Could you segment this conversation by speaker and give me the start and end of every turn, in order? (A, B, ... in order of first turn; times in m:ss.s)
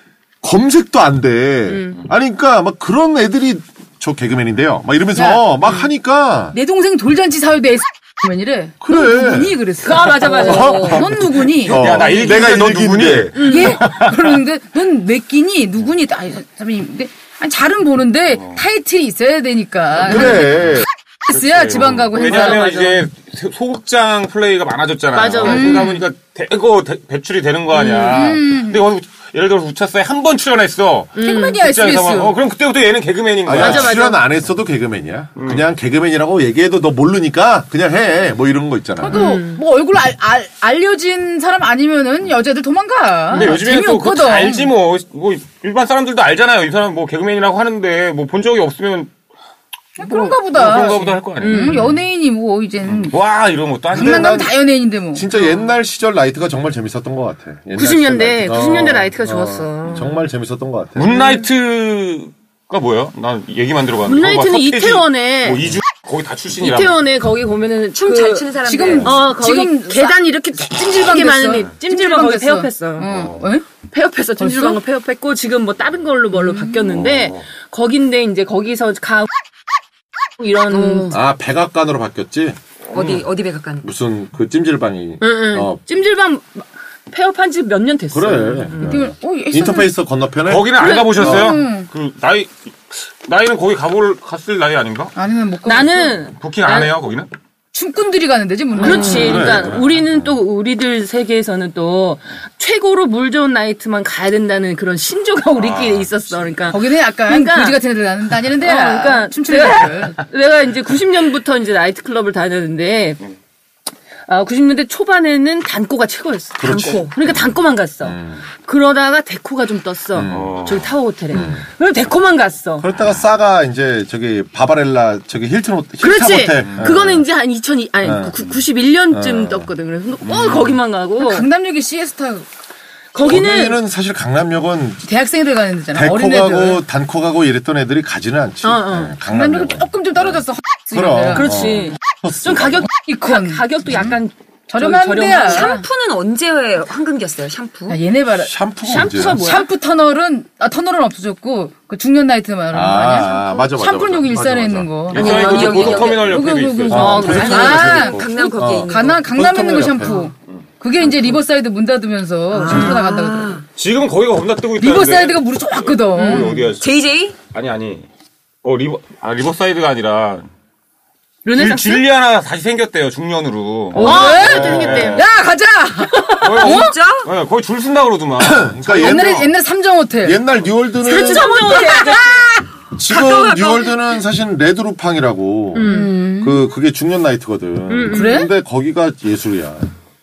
0:00.4-0:06.6 A
0:01.7-0:02.0 B
0:05.2-0:05.4 C
0:06.5-0:11.9 C
0:08.8-0:09.6 A
0:09.8-0:11.1 B
0:10.3-0:13.4 A
0:11.4-0:14.3 D
0:13.4-0:13.8 B
0:13.4-0:20.6 C
0:20.0-0:20.9 A
0:21.3-0:23.0 C
0:21.3-0:33.9 D
0:22.3-0:22.6 B
0:25.1-0:26.0 B
0:25.4-0:26.0 C
0:27.8-0:28.2 B
0:27.8-0:28.8 C
0:31.2-0:31.6 B
0:31.2-0:32.3 C
0:33.5-0:39.2 A
0:33.5-0:34.2 B
0:35.4-0:35.7 D
0:39.0-0:44.7 C
0:39.1-0:39.6 B
0:43.3-0:49.1 D
0:43.3-0:43.6 B
0:50.0-0:53.2 C
0:50.0-0:51.9 D
0:51.4-0:51.9 B
0:52.9-0:54.4 D
0:53.9-0:55.3 C
0:53.9-0:54.6 A
0:55.1-1:01.2 A
0:57.8-1:00.1 B
1:01.0-1:07.0 D
1:04.0-1:05.7 B
1:06.6-1:08.4 B
1:08.0-1:09.2 E
1:08.2-1:13.6 C
1:09.0-1:13.1 B
1:13.0-1:13.4 D
1:13.9-1:19.3 B
1:14.4-1:14.8 C
1:16.4-1:16.9 C
1:16.9-1:17.5 D
1:20.4-1:21.2 B
1:20.7-1:21.2 E
1:21.1-1:22.6 A
1:22.9-1:23.2 D
1:22.9-1:23.9 E
1:23.8-1:25.8 A
1:25.2-1:29.0 B
1:28.1-1:30.7 A
1:28.7-1:29.9 C
1:30.5-1:35.1 D
1:30.8-1:31.5 B
1:31.1-1:31.9 C
1:31.2-1:31.5 A
1:35.2-1:36.2 C
1:35.6-1:36.9 B
1:36.3-1:37.3 D
1:37.7-1:39.6 C
1:38.8-1:47.8 B
1:38.9-1:40.0 D
1:39.0-1:39.9 A
1:45.6-1:46.1 D
1:46.7-1:50.2 C
1:48.6-1:53.2 B
1:54.3-2:02.9 B
1:56.6-1:57.3 A
1:56.6-1:57.2 E
1:58.0-1:58.4 A
2:00.2-2:00.8 A
2:00.3-2:00.9 D
2:01.3-2:01.6 A
2:02.8-2:07.2 A
2:06.0-2:11.5 B
2:06.6-2:06.9 D
2:08.0-2:08.4 A
2:09.1-2:09.7 A
2:10.2-2:10.8 D
2:11.2-2:12.5 C
2:13.1-2:13.8 B
2:13.2-2:15.1 A
2:15.1-2:16.8 C
2:15.9-2:19.9 A
2:18.6-2:19.1 B
2:19.2-2:22.0 C
2:20.9-2:22.9 A
2:21.3-2:25.8 B
2:23.0-2:25.8 C
2:25.5-2:28.0 E
2:27.9-2:28.5 C
2:28.4-2:29.4 A
2:28.9-2:29.7 B
2:29.4-2:43.6 C
2:32.7-2:34.9 A
2:35.1-2:38.3 D
2:35.1-2:36.4 E
2:36.9-2:40.2 A
2:36.9-2:38.0 B
2:37.3-2:39.3 E
2:42.5-2:43.6 E
2:43.8-2:47.0 D
2:44.8-2:46.7 C
2:46.2-2:46.6 B
2:46.8-2:47.4 E
2:47.5-2:48.1 D
2:48.6-2:50.5 D
2:51.4-2:52.0 B
2:51.5-2:55.2 D
2:53.9-2:57.0 C
2:54.0-2:55.2 B
2:54.5-2:55.1 A
2:56.4-2:59.4 D
2:56.6-2:57.3 E
2:58.4-2:59.5 A
2:58.9-3:00.4 C
3:00.2-3:01.7 A
3:01.0-3:02.5 B
3:01.1-3:02.7 C
3:01.7-3:02.2 E
3:03.0-3:09.9 A
3:03.1-3:04.0 E
3:05.7-3:06.1 B
3:05.8-3:06.6 C
3:07.9-3:08.5 B
3:08.1-3:08.5 C